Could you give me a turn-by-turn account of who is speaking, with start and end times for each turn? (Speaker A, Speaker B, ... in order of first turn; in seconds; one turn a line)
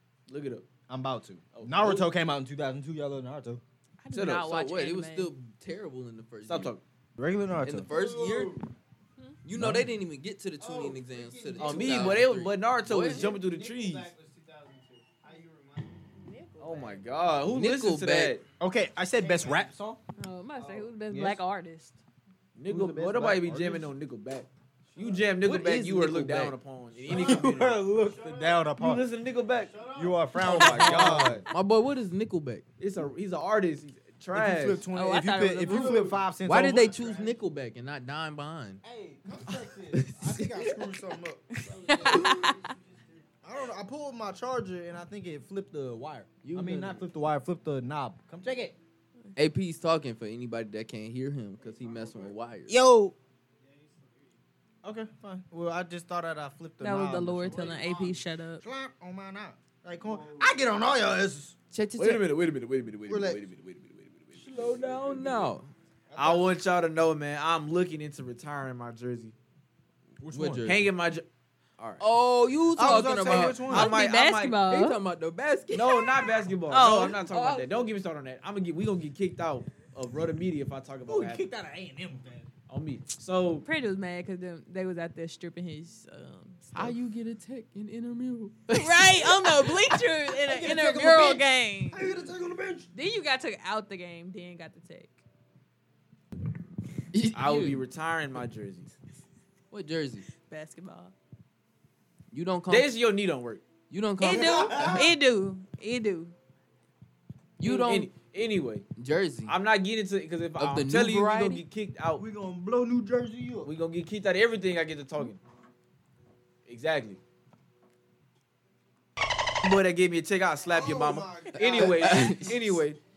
Speaker A: 0.3-0.7
Speaker B: 0.9-3.6
Speaker A: 1.5-2.1
Speaker C: 4.0-5.3
Speaker A: 4.1-4.5
Speaker D: 4.4-6.7
Speaker A: 6.5-6.8
Speaker B: 7.2-8.6
Speaker D: 7.6-8.7
Speaker E: 7.9-8.4
Speaker D: 9.4-13.3
Speaker B: 9.6-9.9
Speaker E: 10.6-12.3
Speaker A: 11.6-14.1
Speaker E: 13.2-16.0
Speaker C: 16.2-17.1
Speaker A: 16.6-18.4
Speaker D: 17.5-18.4
Speaker B: 18.6-20.0
Speaker E: 19.1-19.7
Speaker C: 20.2-22.0
Speaker B: 20.6-21.4
Speaker A: 22.6-27.8
Speaker B: 22.7-23.9
Speaker B: 24.9-26.5
Speaker D: 25.5-26.5
Speaker E: 27.1-28.7
Speaker B: 27.1-29.1
Speaker A: 28.8-29.7
Speaker E: 29.4-31.3
Speaker B: 29.9-31.4
Speaker A: 30.4-31.5
Speaker D: 31.5-32.6
Speaker A: 32.8-34.8
Speaker B: 34.3-37.2
Speaker C: 34.9-36.1
Speaker E: 36.0-37.4
Speaker D: 36.4-38.8
Speaker B: 38.8-42.6
Speaker D: 39.9-40.8
Speaker E: 41.6-43.7
Speaker C: 41.9-42.7
Speaker B: 43.4-48.8
Speaker D: 46.4-47.0
Speaker D: 49.4-52.7
Speaker E: 51.6-52.4
Speaker B: 52.7-53.1
Speaker E: 53.6-54.4
Speaker B: 54.8-58.1
Speaker C: 56.8-58.6
Speaker E: 57.5-58.2
Speaker B: 58.6-61.5
Speaker E: 60.0-60.6
Speaker D: 61.7-62.2
Speaker A: 62.0-65.5
Speaker B: 63.1-63.4
Speaker D: 64.4-65.7
Speaker B: 66.1-66.5
Speaker A: 66.2-69.3
Speaker B: 70.2-70.7
Speaker D: 70.3-70.8
Speaker A: 70.7-71.3
Speaker A: 71.8-72.0
Speaker D: 71.9-73.7
Speaker B: 72.8-74.0
Speaker A: 73.2-74.6
Speaker C: 73.5-75.0
Speaker D: 74.7-76.3
Speaker A: 75.7-81.5
Speaker C: 76.7-77.3
Speaker D: 77.1-77.9
Speaker B: 81.1-82.5
Speaker A: 82.7-83.7
Speaker C: 83.6-86.9
Speaker D: 86.7-89.8
Speaker C: 88.7-92.2
Speaker B: 90.5-92.9
Speaker C: 92.9-95.2
Speaker D: 97.1-97.8
Speaker A: 97.3-98.9
Speaker D: 99.7-100.3
Speaker C: 100.3-101.1
Speaker D: 102.3-102.9
Speaker A: 102.7-103.6
Speaker D: 103.9-105.0
Speaker C: 104.2-106.3
Speaker B: 104.3-105.1
Speaker D: 107.6-108.1
Speaker A: 107.6-108.9
Speaker D: 109.0-109.5
Speaker A: 109.5-112.3
Speaker D: 110.6-111.6
Speaker B: 112.2-113.7
Speaker A: 113.6-115.4
Speaker A: 116.7-117.2
Speaker A: 119.6-123.0
Speaker B: 120.7-122.5
Speaker D: 121.8-122.8